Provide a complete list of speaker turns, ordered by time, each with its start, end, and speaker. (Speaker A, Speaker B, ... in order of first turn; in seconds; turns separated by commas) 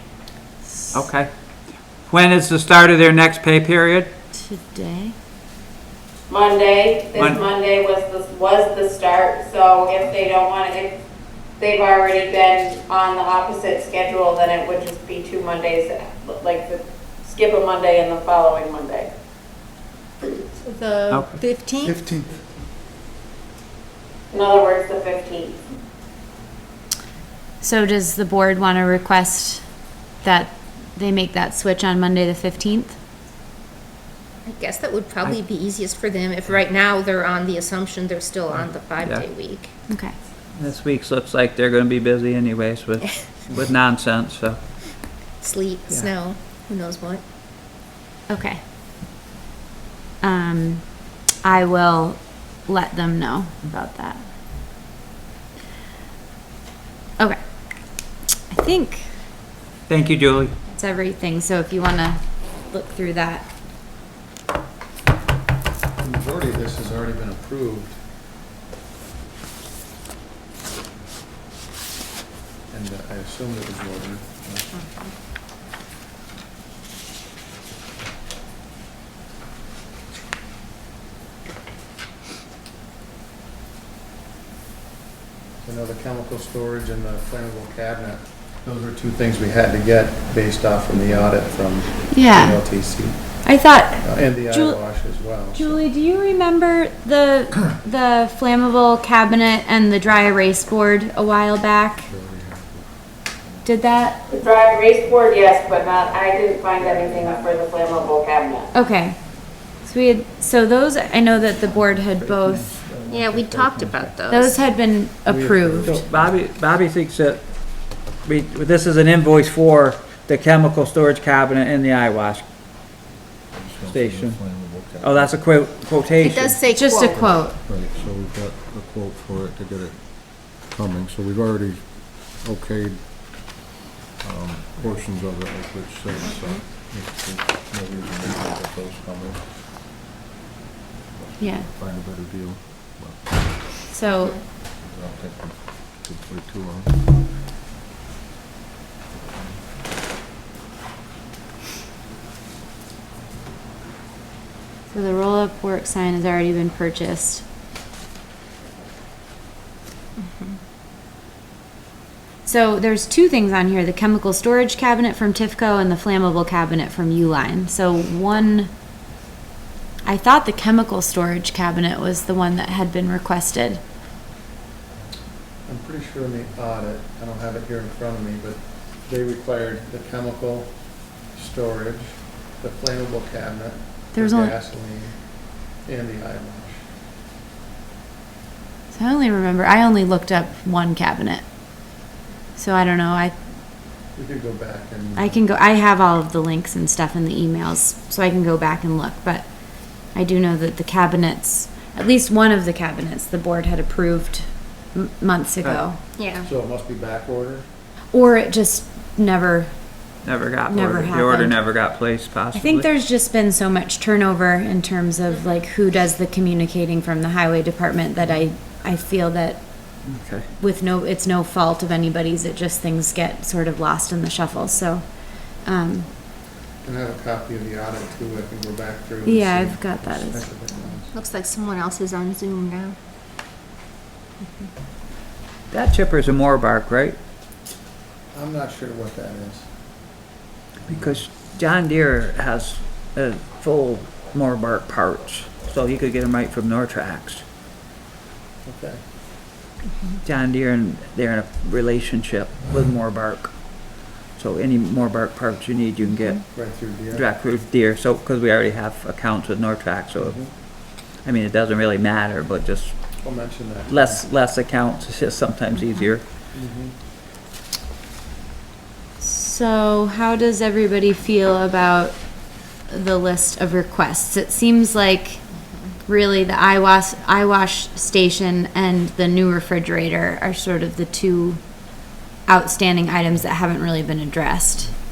Speaker A: 0.6-1.1, Speaker B: 0.9-4.1, Speaker A: 4.3-5.1, Speaker C: 6.3-10.9, Speaker B: 7.1-7.4, Speaker C: 11.6-19.1, Speaker D: 20.6-22.0, Speaker C: 20.8-21.2, Speaker C: 24.3-25.6, Speaker A: 27.6-33.0, Speaker D: 34.4-39.7, Speaker B: 39.0-39.2, Speaker A: 39.9-40.1, Speaker B: 40.5-45.1, Speaker D: 45.4-47.2, Speaker A: 48.3-48.6, Speaker A: 50.2-54.2, Speaker A: 57.2-59.1, Speaker B: 59.9-60.5, Speaker A: 60.7-63.5, Speaker E: 66.0-68.0, Speaker E: 72.7-74.7, Speaker D: 74.7-75.1, Speaker E: 85.6-93.5, Speaker A: 92.1-92.6, Speaker A: 93.4-102.1, Speaker E: 94.0-95.8, Speaker F: 102.0-103.7, Speaker A: 103.6-104.2, Speaker C: 104.3-108.7, Speaker B: 106.8-107.6, Speaker A: 108.7-112.7, Speaker B: 111.9-114.1, Speaker D: 113.1-114.7, Speaker A: 114.3-116.0, Speaker E: 115.3-116.0, Speaker B: 115.8-122.4, Speaker F: 123.5-125.4, Speaker B: 123.9-126.6, Speaker D: 126.2-127.4, Speaker A: 126.7-127.6, Speaker F: 127.4-133.5, Speaker F: 134.2-139.6, Speaker D: 136.2-136.6, Speaker F: 141.1-143.9, Speaker A: 141.4-141.7, Speaker A: 143.9-144.4, Speaker F: 144.5-147.2, Speaker F: 149.1-149.6, Speaker A: 154.9-157.4, Speaker A: 162.4-168.7, Speaker A: 170.0-173.8, Speaker E: 175.7-186.8, Speaker A: 184.1-184.6, Speaker A: 188.9-191.4, Speaker A: 192.5-193.4, Speaker E: 194.1-195.4, Speaker A: 195.1-206.0, Speaker D: 206.2-206.5, Speaker E: 206.4-207.7, Speaker A: 208.1-210.1, Speaker B: 210.2-212.8, Speaker A: 210.7-211.6, Speaker A: 212.5-220.1, Speaker B: 220.0-220.4, Speaker A: 220.6-226.1, Speaker E: 226.8-231.1, Speaker A: 229.2-230.6, Speaker D: 231.1-232.9, Speaker B: 235.7-237.2, Speaker E: 238.3-239.7, Speaker B: 240.8-247.4, Speaker E: 240.9-241.2, Speaker E: 248.6-249.0, Speaker B: 250.2-263.2, Speaker E: 256.5-257.2, Speaker E: 260.2-260.5, Speaker E: 263.2-264.2, Speaker B: 263.9-266.2, Speaker E: 266.5-266.9, Speaker A: 269.2-275.4, Speaker A: 276.0-284.9